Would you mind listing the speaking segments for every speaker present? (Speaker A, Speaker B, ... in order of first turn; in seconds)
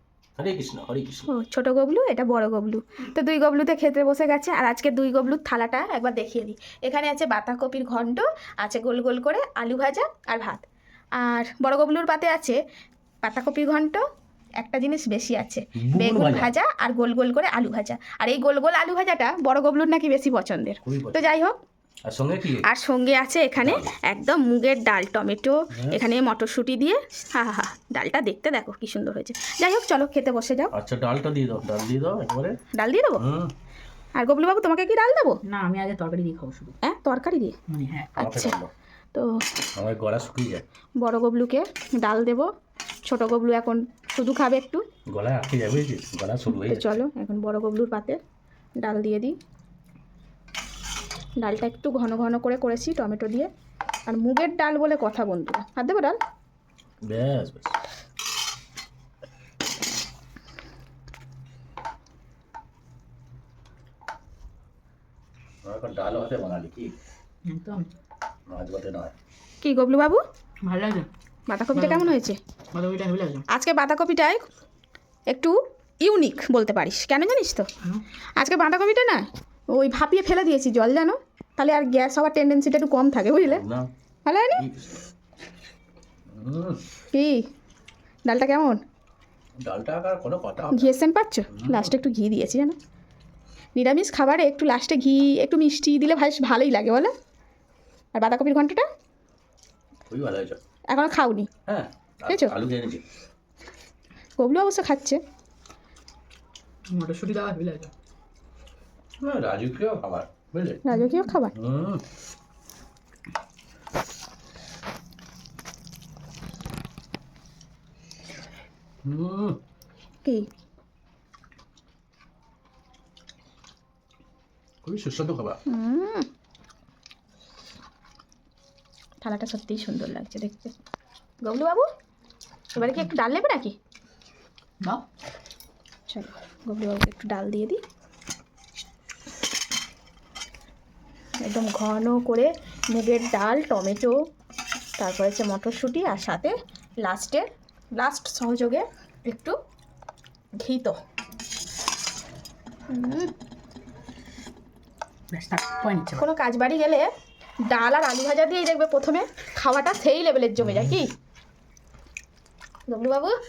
Speaker A: 0.4-1.3, 15.8-16.5, 20.8-21.3, 22.1-22.7, 23.6-23.9, 25.7-26.0, 30.7-32.6, 33.2-33.5, 38.2-38.7, 39.8-40.6, 45.1-46.9, 57.0-57.8, 65.6-66.9, 68.5-69.1, 83.4-83.9, 84.5-85.0, 86.3-86.8, 89.6-90.9, 91.5-91.9, 100.1-100.6, 101.7-103.0, 109.2-110.8, 111.5-112.0, 119.0-119.6, 124.8-125.6, 160.6-160.9
Speaker B: 1.3-10.6, 11.2-12.6, 13.2-14.0, 14.6-21.6, 22.6-30.7, 32.7-33.2, 34.2-35.4, 36.8-37.6, 38.2-38.6, 41.0-42.5, 43.1-44.8, 46.5-48.2, 48.8-49.4, 51.4-53.5, 54.1-56.2, 69.6-70.2, 71.5-72.4, 73.5-74.4, 75.3-77.7, 78.4-83.6, 84.2-84.7, 87.1-87.5, 88.3-88.8, 90.7-92.8, 93.8-97.1, 98.2-98.9, 100.9-101.5, 102.3-102.5, 104.4-105.2, 110.8-111.6, 125.7-126.3, 129.2-130.7, 131.4-131.9, 132.8-133.8, 136.1-137.8, 141.4-144.2, 145.0-149.6, 150.6-151.0, 152.9-153.3, 156.2-157.1, 157.7-161.1, 162.9-163.4
Speaker C: 35.5-36.8, 37.7-38.1, 67.5-67.9, 70.6-71.1, 71.7-72.1, 72.7-73.5, 106.9-107.9, 155.3-156.2